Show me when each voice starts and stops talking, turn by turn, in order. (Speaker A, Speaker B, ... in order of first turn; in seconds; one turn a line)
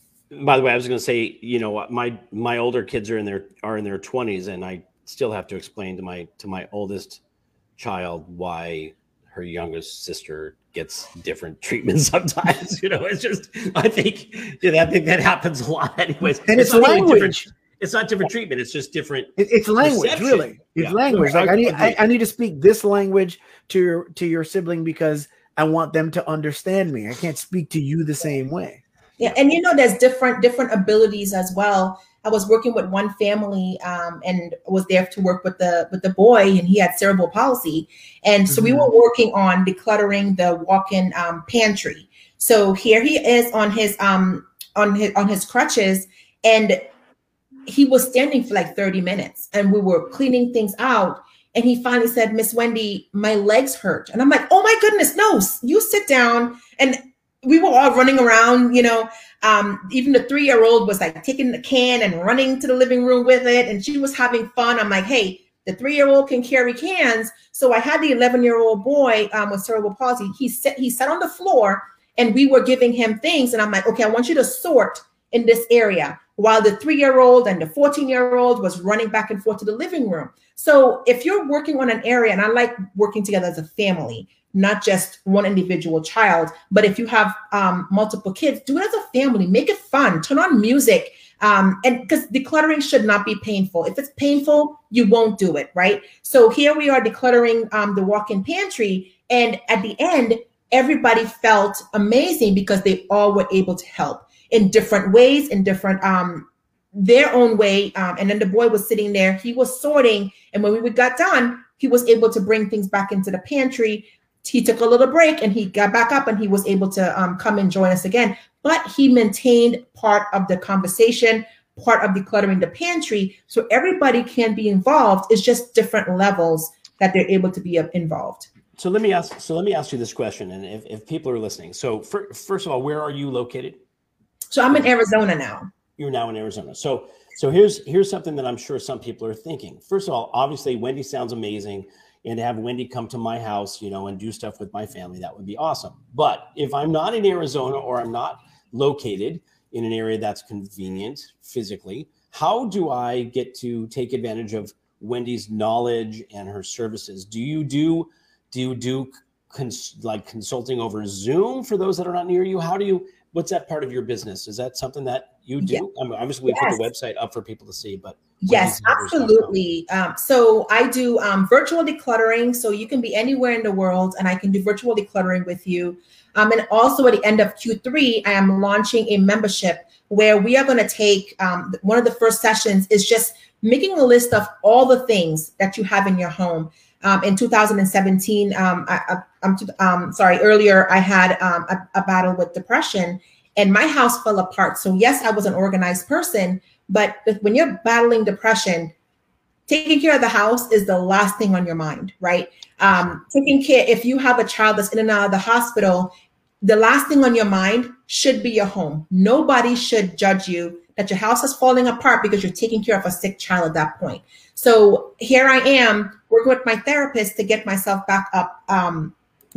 Speaker A: 0.3-7.2
Speaker A: 7.8-22.0
Speaker B: 16.4-17.4
Speaker B: 19.4-28.8
Speaker C: 29.2-46.8
Speaker B: 38.5-38.9
Speaker C: 47.7-128.5
Speaker A: 128.8-133.8
Speaker C: 134.5-135.7
Speaker A: 136.0-169.5
Speaker C: 166.5-166.8
Speaker C: 168.4-198.9
Speaker C: 199.7-219.2